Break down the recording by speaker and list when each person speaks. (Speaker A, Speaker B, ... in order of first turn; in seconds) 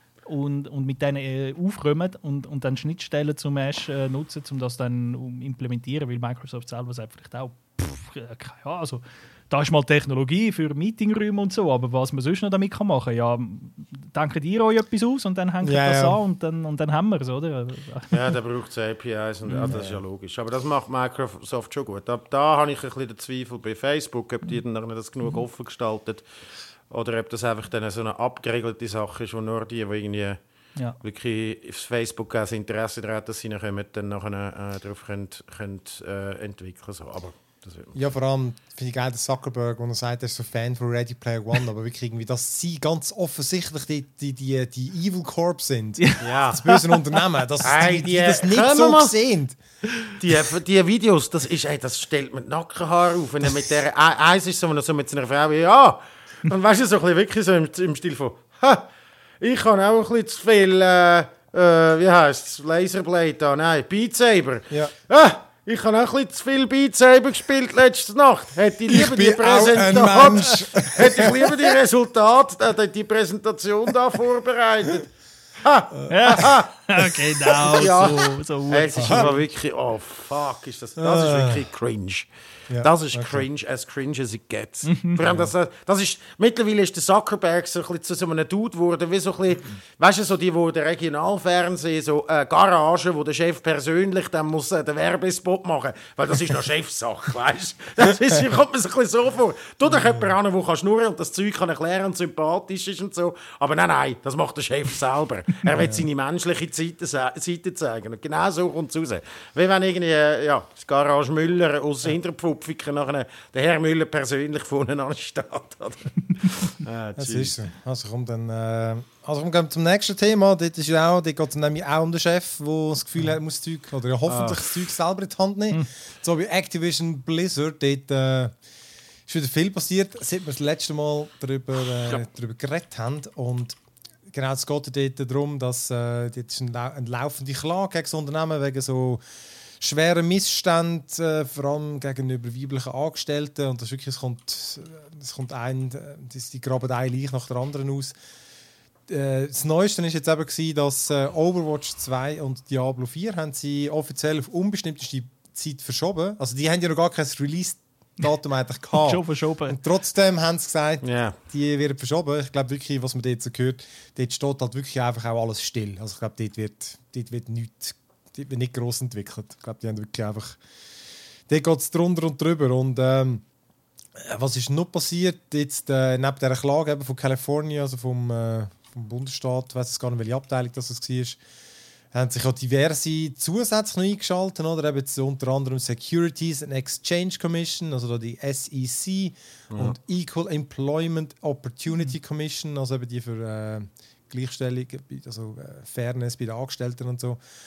Speaker A: 0.3-18.3, 19.5-19.8, 46.0-47.2, 76.1-79.4, 84.9-85.2, 158.9-159.8
Speaker B: 15.6-16.2, 19.7-20.0, 37.9-49.6, 68.9-71.7, 79.0-79.3, 81.0-81.7, 82.7-83.5, 85.2-85.5, 99.9-100.2, 105.7-106.0, 117.2-128.6, 129.3-133.8, 134.3-139.2, 139.8-148.1, 149.1-170.6, 171.5-173.4, 174.2-181.4, 182.1-197.4
Speaker C: 18.1-26.2, 26.9-30.4, 31.0-38.0, 46.2-46.6, 47.6-49.1, 50.2-58.9, 59.4-75.1, 75.6-76.7, 77.5-117.6, 124.3-124.9, 161.0-161.4